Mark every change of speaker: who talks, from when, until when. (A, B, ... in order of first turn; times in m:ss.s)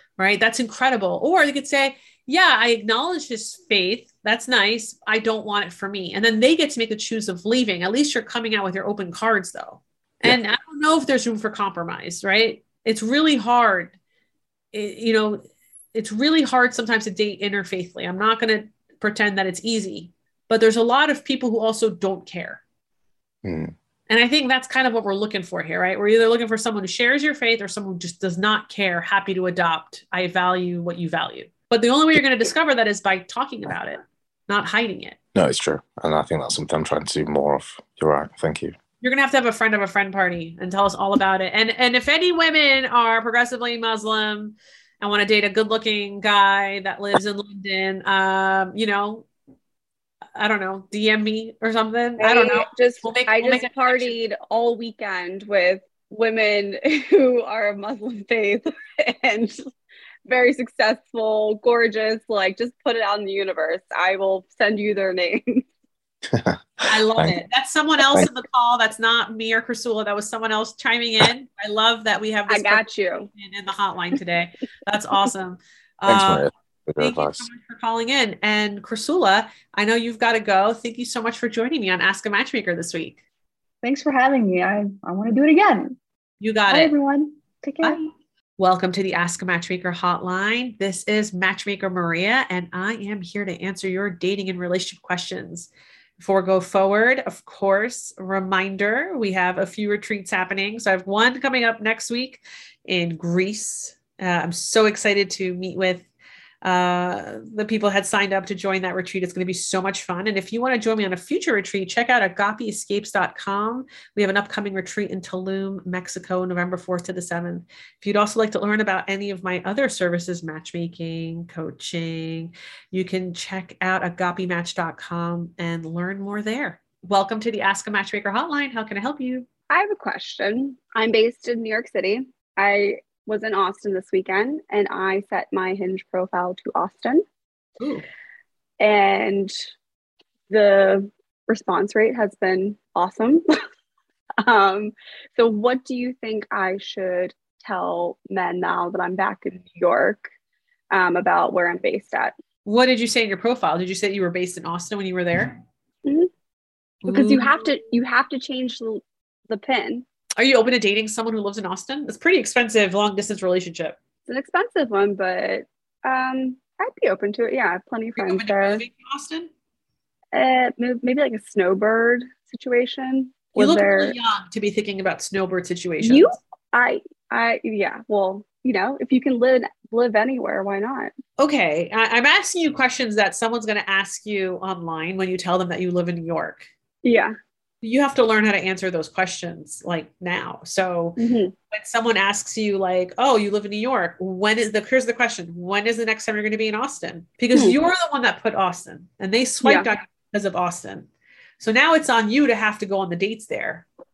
0:00.2-0:13.9 A
0:14.7-0:15.4 A
0:15.9-0:22.6 A
0:23.4-0:23.7 B
0:24.1-0:35.2 A
0:35.3-0:38.8 B
0:39.0-0:49.2 A
0:50.4-0:54.2 A
0:52.2-0:59.6 C
1:00.2-1:05.6 C
1:06.3-1:07.4 B
1:06.9-1:23.2 A
1:12.5-1:13.3 C
1:16.1-1:17.5 B
1:23.8-1:26.0 D
1:26.4-1:26.9 A
1:26.7-1:28.1 D
1:28.6-1:46.1 A
1:46.6-2:09.5 A
2:09.7-2:17.2 C
2:17.8-2:18.1 A
2:18.8-2:19.5 C
2:20.5-2:23.4 C
2:24.4-2:30.3 C
2:30.9-2:32.3 C
2:32.6-2:35.6 A
2:36.0-2:36.3 C
2:37.0-2:37.7 A
2:37.0-2:40.0 C
2:40.4-2:44.0 A
2:44.3-2:48.8 C
2:48.2-2:49.5 A
2:50.3-2:54.1 C
2:53.6-2:56.3 A
2:56.0-3:01.1 C
3:01.4-3:06.7 A
3:07.0-3:07.3 C
3:07.8-3:11.2 A
3:11.2-3:11.5 C
3:11.7-3:21.1 A
3:21.6-3:23.8 A